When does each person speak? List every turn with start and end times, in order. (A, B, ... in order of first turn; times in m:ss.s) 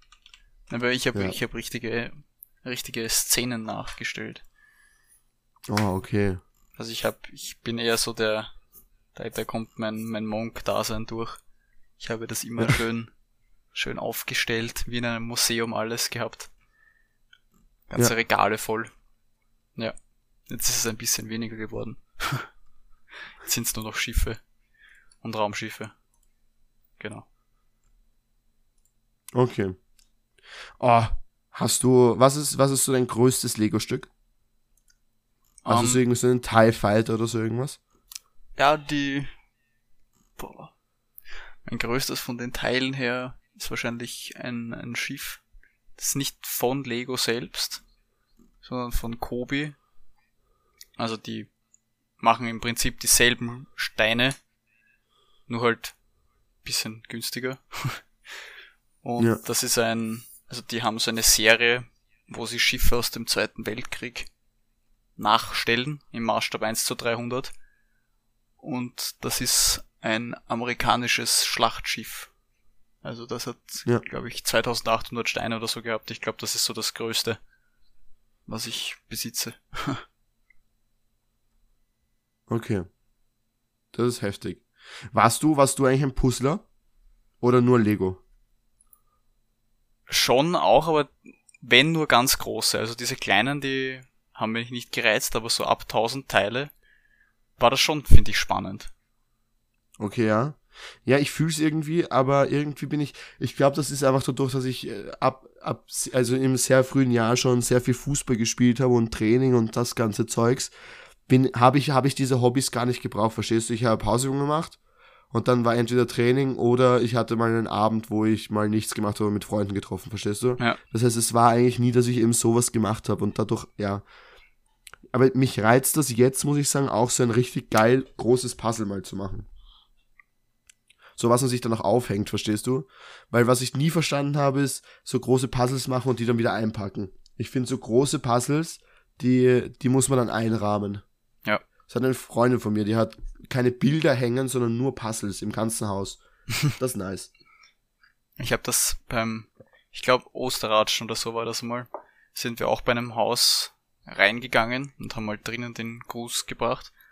0:00.7-0:04.4 A
0:05.7-0:06.4 B
0:06.8-0:08.5 A
0:09.1-0:11.4 A
0:12.0-0:13.1 A
0:13.7-0:16.5 A
0:17.9-0:18.9 A
0:20.5-0:22.5 A
0:23.4-0:24.4 A
0:25.2-0:25.9 A
0:27.0-0:27.3 A
0:29.4-0:29.8 B
0:30.8-0:34.1 B
0:35.6-0:36.0 A
0:35.7-0:37.8 B
0:38.6-0:39.3 A
0:40.4-0:40.7 A
0:41.6-0:45.4 A
0:46.0-0:47.8 A
0:48.6-0:49.8 A
0:51.0-0:51.5 A
0:52.2-0:54.4 A
0:55.5-0:56.0 A
0:56.6-0:58.0 A
0:59.0-1:04.3 A
1:05.2-1:07.5 A
1:08.6-1:12.3 A
1:13.0-1:17.4 A
1:18.5-1:20.0 A
1:22.5-1:22.9 B
1:23.9-1:26.6 B
1:27.4-1:28.2 B
1:30.1-1:36.7 A
1:37.6-1:38.9 A
1:40.0-1:50.7 B
1:51.3-1:54.8 B
1:55.3-2:04.0 B
2:05.1-2:09.5 B
2:11.2-2:21.0 B
2:21.9-2:26.2 B
2:26.8-2:27.3 B
2:28.4-2:36.9 A